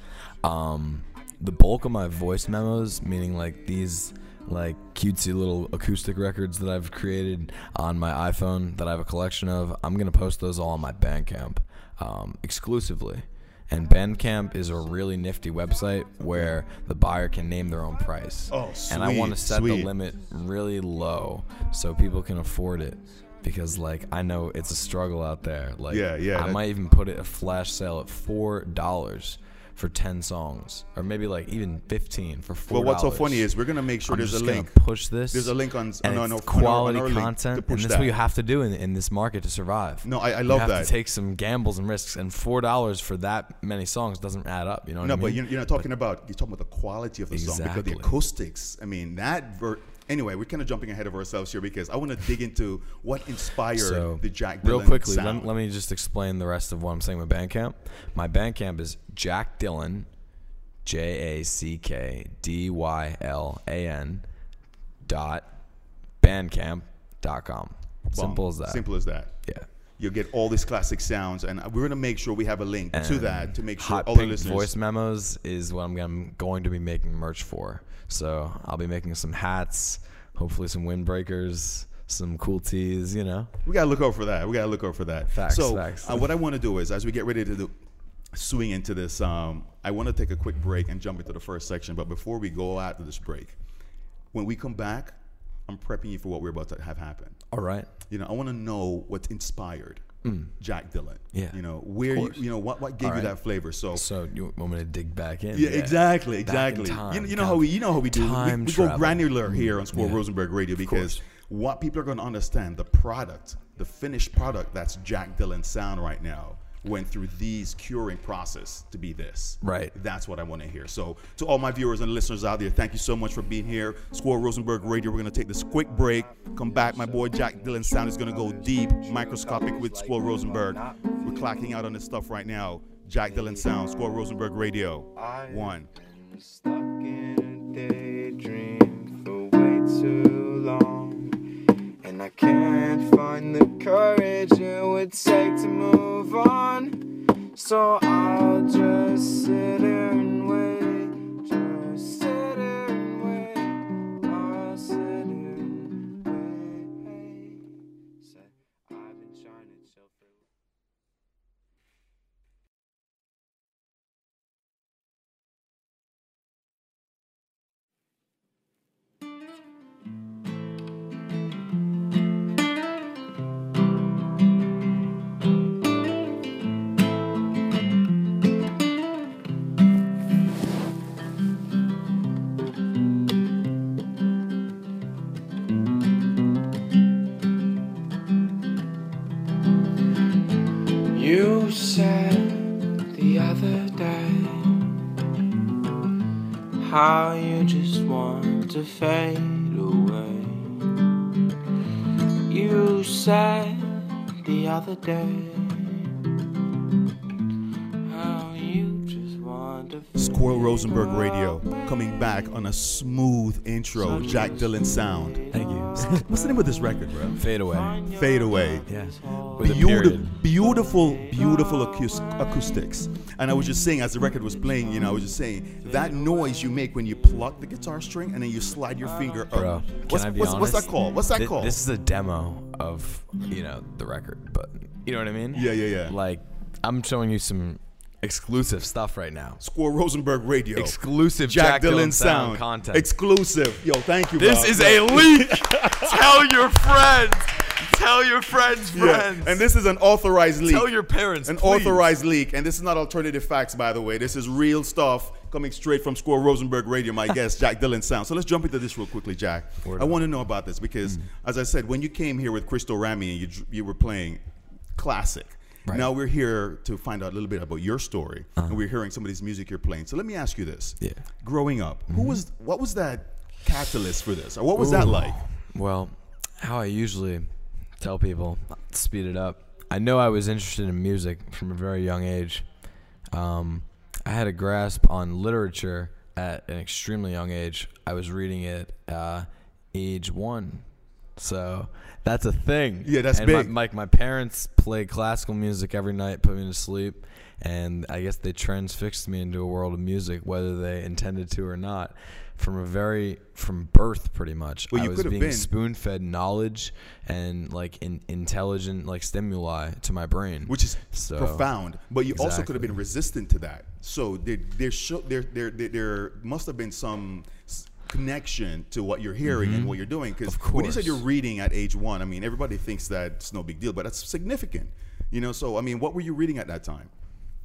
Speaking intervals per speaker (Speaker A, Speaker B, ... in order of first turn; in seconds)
Speaker A: 0.4-33.5, 34.1-45.8, 47.3-48.2, 53.7-60.1, 60.9-64.2, 65.0-65.5, 66.2-68.8, 72.9-83.5, 85.3-86.2, 97.5-97.9, 100.2-100.5, 101.3-101.6, 102.1-102.5, 103.0-103.4, 103.9-110.2, 110.8-111.2, 119.6-119.9, 215.5-216.3, 217.4-218.0, 218.9-220.3, 229.5-239.6, 240.8-243.1, 244.4-249.6, 250.7-252.1, 259.8-260.2, 272.1-272.4, 274.8-277.5, 278.0-282.7, 283.3-290.9, 291.4-311.7, 312.3-313.0, 319.4-321.2
Speaker B: 16.3-16.6, 18.5-19.9, 25.9-26.6, 32.7-34.8, 35.3-38.2, 40.0-40.9, 45.0-55.5, 68.1-69.3, 70.0-74.7, 83.7-87.7, 88.3-93.6, 94.3-95.2, 95.7-97.4, 98.1-100.0, 100.6-104.0, 105.5-135.9, 210.2-215.4, 216.0-217.4, 218.1-218.9, 219.6-231.8, 235.5-236.2, 239.6-246.4, 248.9-264.4, 264.9-275.4, 293.0-293.7, 304.9-305.7, 310.7-327.1
Speaker C: 125.7-131.6, 133.2-134.0, 135.2-160.4, 191.1-195.0, 196.8-201.0, 202.5-206.1, 208.0-211.3, 213.9-216.7, 217.7-219.8, 220.5-222.6, 224.4-227.5, 229.0-229.8